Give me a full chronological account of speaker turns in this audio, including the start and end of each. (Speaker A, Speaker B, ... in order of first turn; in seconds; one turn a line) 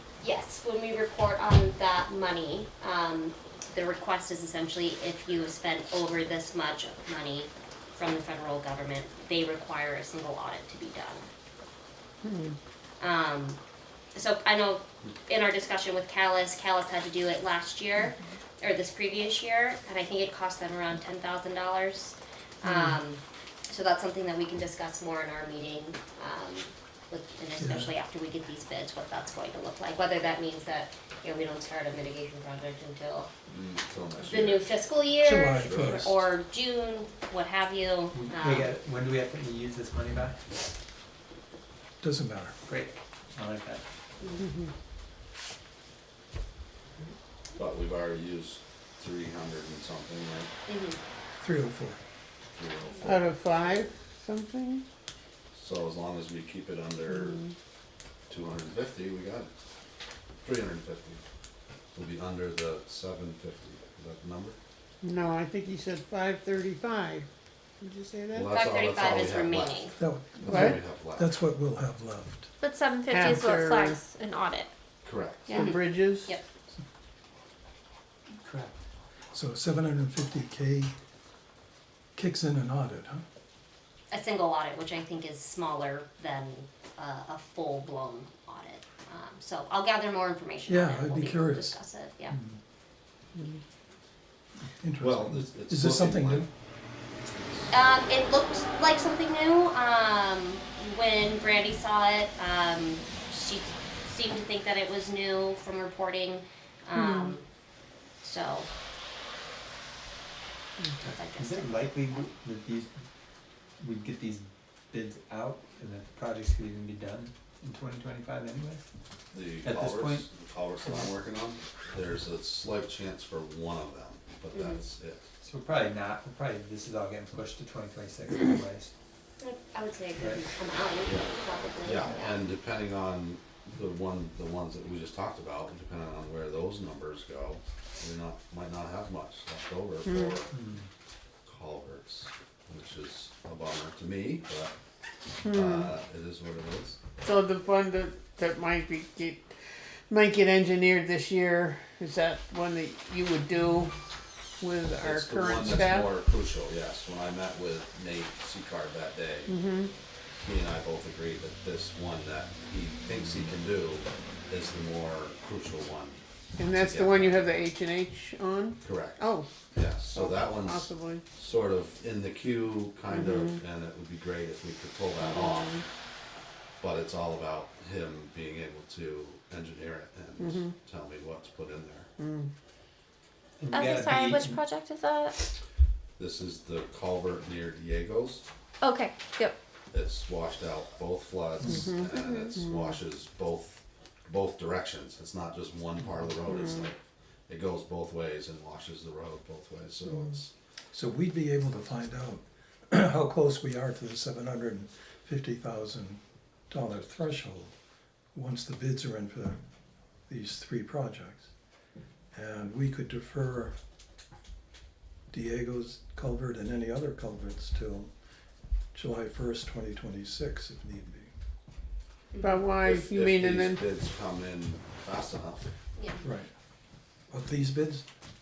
Speaker A: 0.2-11.3
Speaker B: 12.2-12.6
Speaker A: 13.0-13.6
Speaker A: 14.1-33.3
Speaker C: 27.6-27.9
Speaker D: 33.5-34.8
Speaker A: 34.2-38.7
Speaker C: 35.2-36.1
Speaker D: 35.5-36.2
Speaker E: 38.1-40.4
Speaker C: 42.0-42.5
Speaker E: 42.6-43.8
Speaker A: 44.2-44.5
Speaker B: 44.4-44.7
Speaker D: 47.5-50.5
Speaker A: 50.7-51.0
Speaker C: 51.3-52.0
Speaker D: 52.5-53.8
Speaker B: 53.0-54.8
Speaker D: 55.5-57.4
Speaker D: 58.3-59.5
Speaker D: 60.4-61.2
Speaker D: 61.9-64.6
Speaker B: 65.0-67.3
Speaker B: 67.8-68.5
Speaker D: 68.3-69.9
Speaker A: 68.5-69.9
Speaker C: 70.0-72.5
Speaker D: 70.4-71.3
Speaker B: 70.5-70.8
Speaker F: 72.6-74.7
Speaker B: 73.1-74.0
Speaker D: 75.0-75.6
Speaker B: 75.5-76.3
Speaker A: 75.5-76.4
Speaker E: 78.4-78.7
Speaker C: 79.3-80.9
Speaker C: 82.2-83.2
Speaker A: 84.1-92.3
Speaker C: 90.7-91.8
Speaker C: 92.3-92.6
Speaker C: 94.8-96.5
Speaker D: 95.0-96.5
Speaker D: 97.4-97.7
Speaker A: 97.7-107.4
Speaker A: 108.2-108.7
Speaker A: 111.0-112.2
Speaker E: 111.4-112.9
Speaker E: 113.8-118.8
Speaker D: 119.3-125.2
Speaker E: 119.6-120.3
Speaker A: 124.5-124.8
Speaker E: 125.4-128.9
Speaker A: 129.4-132.4
Speaker D: 131.0-131.3
Speaker D: 131.8-140.5
Speaker B: 140.0-140.3
Speaker E: 140.5-140.9
Speaker D: 141.4-144.7
Speaker B: 145.4-145.9
Speaker D: 145.5-147.0
Speaker B: 147.2-149.5
Speaker B: 150.1-153.9
Speaker B: 154.6-156.1
Speaker D: 155.0-159.5
Speaker B: 159.5-159.9
Speaker D: 160.4-167.5
Speaker B: 166.6-169.5
Speaker D: 168.8-169.2
Speaker D: 169.7-175.7
Speaker B: 170.1-171.2
Speaker B: 173.1-173.5
Speaker D: 176.8-182.1
Speaker B: 180.4-180.7
Speaker B: 182.2-182.5
Speaker E: 183.6-184.6
Speaker F: 183.7-185.4
Speaker D: 186.2-188.4
Speaker F: 188.8-189.5
Speaker D: 189.9-196.9
Speaker B: 191.8-192.8
Speaker D: 197.5-200.5
Speaker C: 200.9-207.7
Speaker C: 208.3-209.6
Speaker C: 210.3-211.5
Speaker C: 212.3-213.7
Speaker C: 215.3-218.1
Speaker C: 218.9-221.3
Speaker A: 222.3-222.6
Speaker B: 222.4-223.8
Speaker D: 222.8-225.7
Speaker A: 226.0-226.2
Speaker C: 226.2-226.5
Speaker C: 227.3-228.0